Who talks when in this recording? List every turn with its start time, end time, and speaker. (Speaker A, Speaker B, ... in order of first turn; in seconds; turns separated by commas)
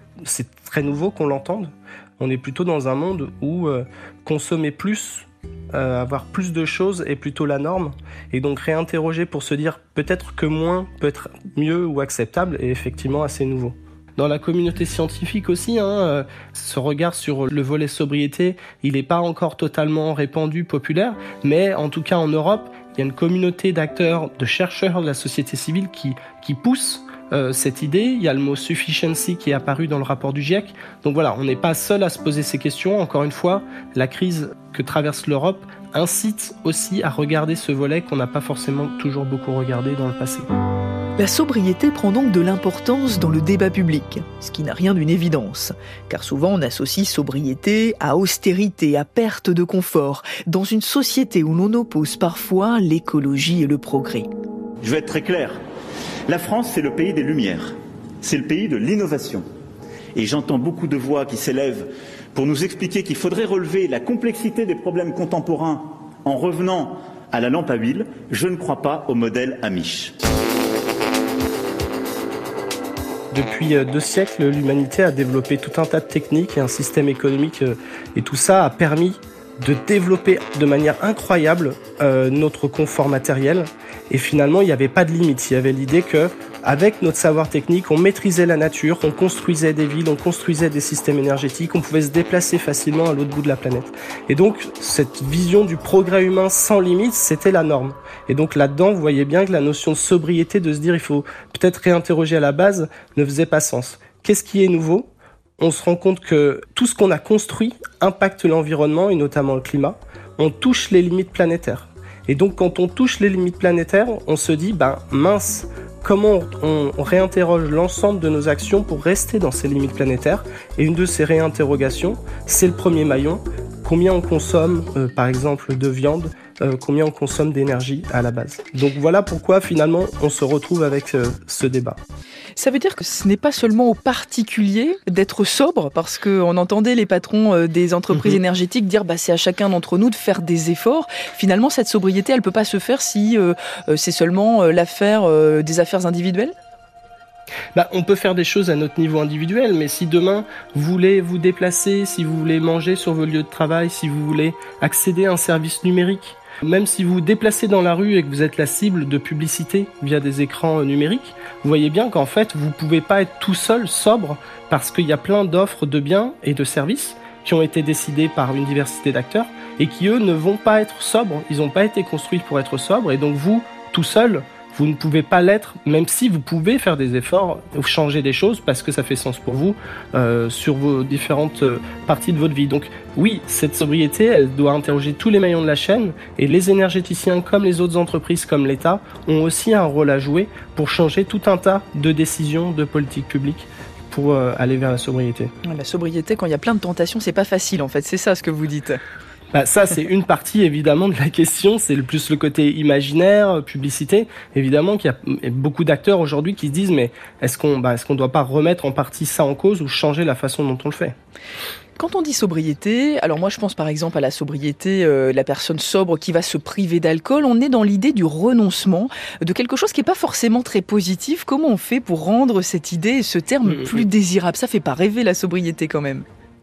Speaker A: 0.3-40.5, Speaker B: 41.2-54.3, Speaker C: 54.8-55.6, Speaker C: 56.3-59.4, Speaker C: 60.1-70.1, Speaker A: 73.3-132.0, Speaker B: 132.6-146.5, Speaker A: 147.7-195.5, Speaker B: 195.6-199.0, Speaker A: 199.5-211.2, Speaker B: 212.0-226.2